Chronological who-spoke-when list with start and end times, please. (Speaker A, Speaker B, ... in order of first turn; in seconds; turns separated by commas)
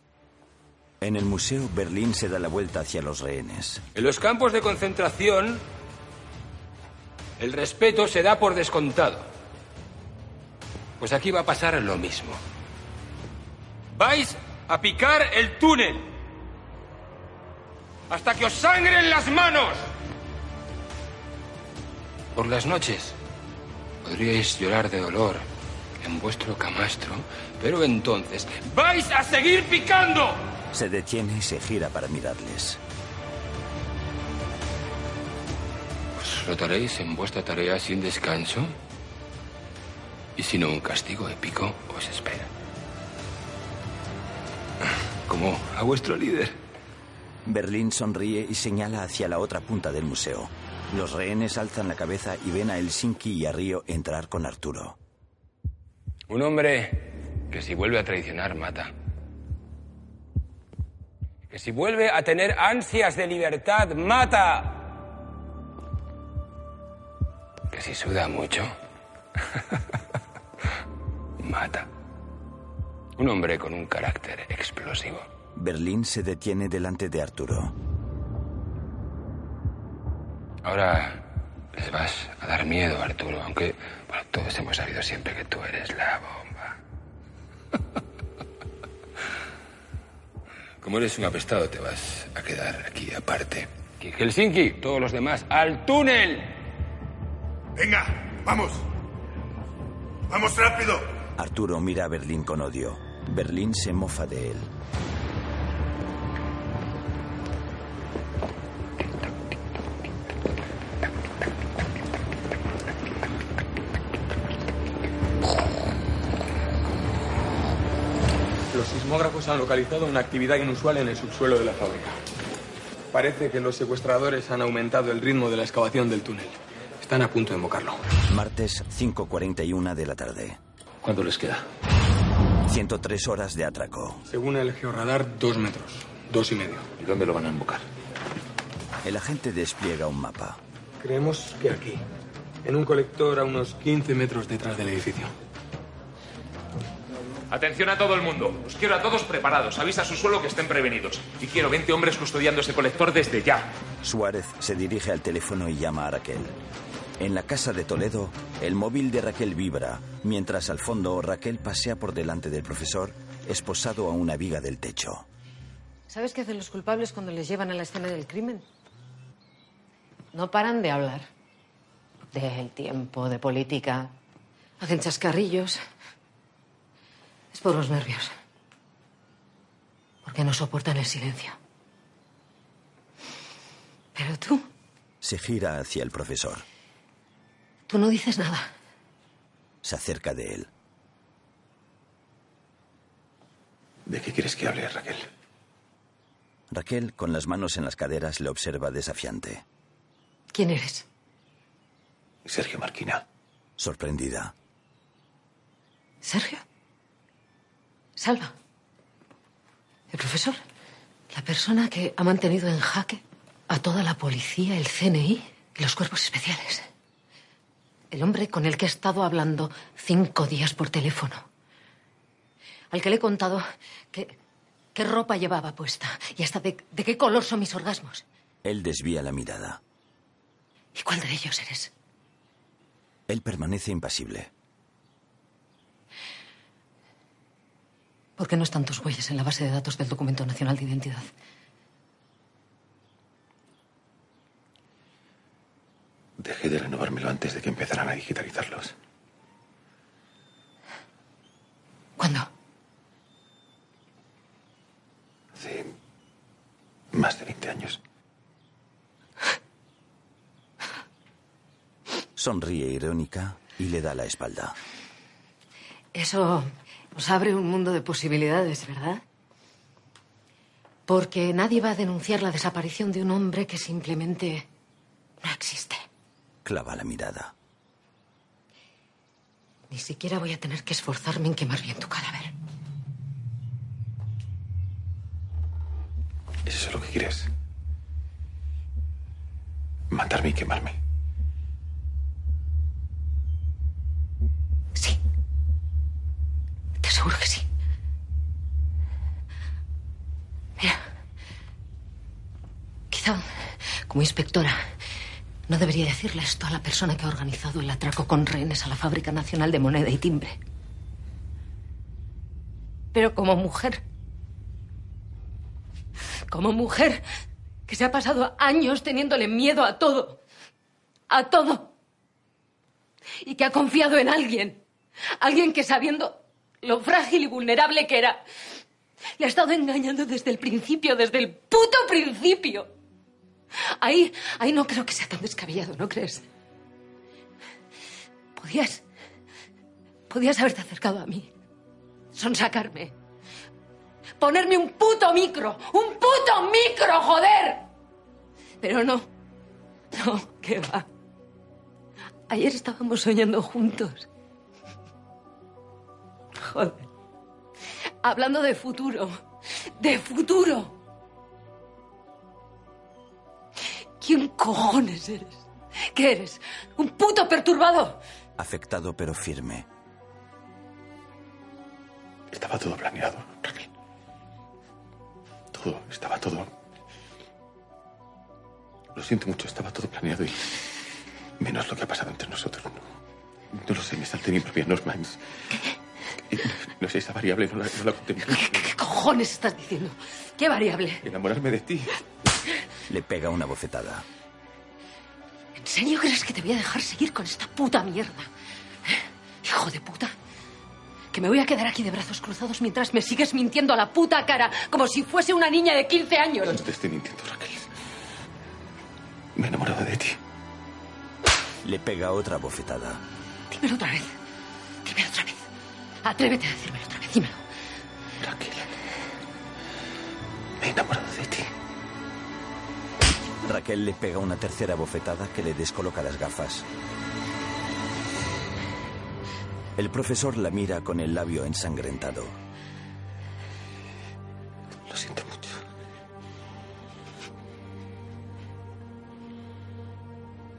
Speaker A: 1.0-3.8, Speaker B: 3.9-5.6, Speaker B: 7.4-9.3, Speaker B: 11.0-12.4, Speaker B: 13.9-16.1, Speaker B: 18.1-19.9, Speaker B: 22.4-23.2, Speaker B: 24.0-25.5, Speaker B: 26.0-30.4, Speaker A: 30.7-32.8, Speaker B: 36.2-38.8, Speaker B: 40.4-42.5, Speaker B: 45.3-46.6, Speaker A: 47.5-55.0, Speaker B: 56.3-58.9, Speaker B: 61.5-64.9, Speaker B: 67.7-68.7, Speaker B: 71.4-71.9, Speaker B: 73.2-75.3, Speaker A: 75.5-77.8, Speaker B: 80.6-81.2, Speaker B: 81.8-86.8, Speaker B: 90.8-96.5, Speaker C: 97.8-98.8, Speaker C: 100.3-101.0, Speaker A: 101.4-104.7, Speaker C: 118.7-122.2, Speaker C: 123.1-128.0, Speaker A: 128.3-130.6, Speaker A: 132.7-134.2, Speaker C: 134.3-136.9, Speaker D: 137.0-137.8, Speaker A: 139.0-140.6, Speaker C: 141.0-142.0, Speaker C: 142.6-145.3, Speaker D: 147.5-153.7, Speaker A: 154.0-156.5, Speaker A: 157.2-165.3, Speaker E: 166.1-168.7, Speaker E: 170.3-171.3, Speaker E: 172.3-174.1, Speaker E: 174.8-175.8, Speaker E: 177.5-178.3, Speaker E: 180.2-181.6, Speaker E: 184.2-184.7, Speaker A: 185.2-186.7, Speaker E: 187.9-188.7, Speaker A: 189.8-190.7, Speaker F: 194.1-195.2, Speaker A: 196.7-199.6, Speaker E: 200.5-201.0, Speaker F: 202.4-203.2, Speaker A: 203.8-204.5, Speaker E: 206.2-206.6, Speaker E: 208.2-208.5, Speaker E: 210.1-210.6, Speaker E: 211.3-216.9, Speaker E: 218.1-221.5, Speaker E: 222.9-224.3, Speaker E: 224.9-228.2, Speaker A: 228.6-229.8, Speaker E: 230.9-231.9, Speaker A: 233.3-234.5, Speaker E: 238.4-241.3, Speaker F: 246.4-248.9, Speaker E: 252.2-252.5, Speaker F: 255.5-255.9, Speaker F: 257.1-258.0, Speaker A: 262.4-264.8, Speaker E: 266.1-269.2, Speaker E: 271.1-274.6, Speaker E: 275.4-276.1, Speaker A: 276.6-277.5, Speaker E: 279.9-282.5, Speaker F: 286.6-287.5, Speaker F: 290.1-290.9, Speaker E: 297.0-297.6, Speaker E: 300.8-301.0, Speaker E: 303.1-304.8, Speaker E: 305.7-310.6, Speaker E: 313.1-314.0, Speaker E: 316.5-317.2, Speaker E: 317.9-320.4, Speaker E: 321.3-321.9, Speaker E: 323.4-324.8, Speaker E: 325.3-328.4, Speaker E: 329.4-332.9, Speaker E: 333.8-336.4, Speaker E: 338.6-339.0, Speaker E: 340.3-341.5, Speaker E: 342.3-343.1, Speaker E: 344.4-347.8, Speaker E: 348.8-349.3, Speaker E: 350.1-351.1, Speaker E: 352.5-354.3, Speaker E: 356.6-357.1, Speaker E: 358.2-359.4, Speaker E: 360.0-360.9, Speaker E: 364.2-368.2, Speaker A: 368.6-369.9, Speaker F: 372.5-373.9, Speaker F: 375.7-376.7, Speaker F: 379.1-380.8, Speaker F: 381.6-383.1, Speaker F: 383.7-385.4, Speaker F: 386.5-388.9, Speaker E: 388.5-391.2, Speaker F: 391.2-392.1, Speaker A: 393.1-394.2, Speaker E: 395.8-398.5, Speaker E: 399.0-400.3, Speaker E: 401.3-406.8, Speaker F: 406.6-407.9, Speaker F: 409.5-410.4, Speaker A: 411.8-413.2, Speaker E: 413.7-414.3, Speaker E: 415.0-415.6, Speaker E: 416.2-417.6, Speaker F: 418.4-418.9, Speaker F: 420.8-421.7, Speaker A: 423.6-426.9, Speaker A: 429.9-432.6, Speaker F: 435.1-435.8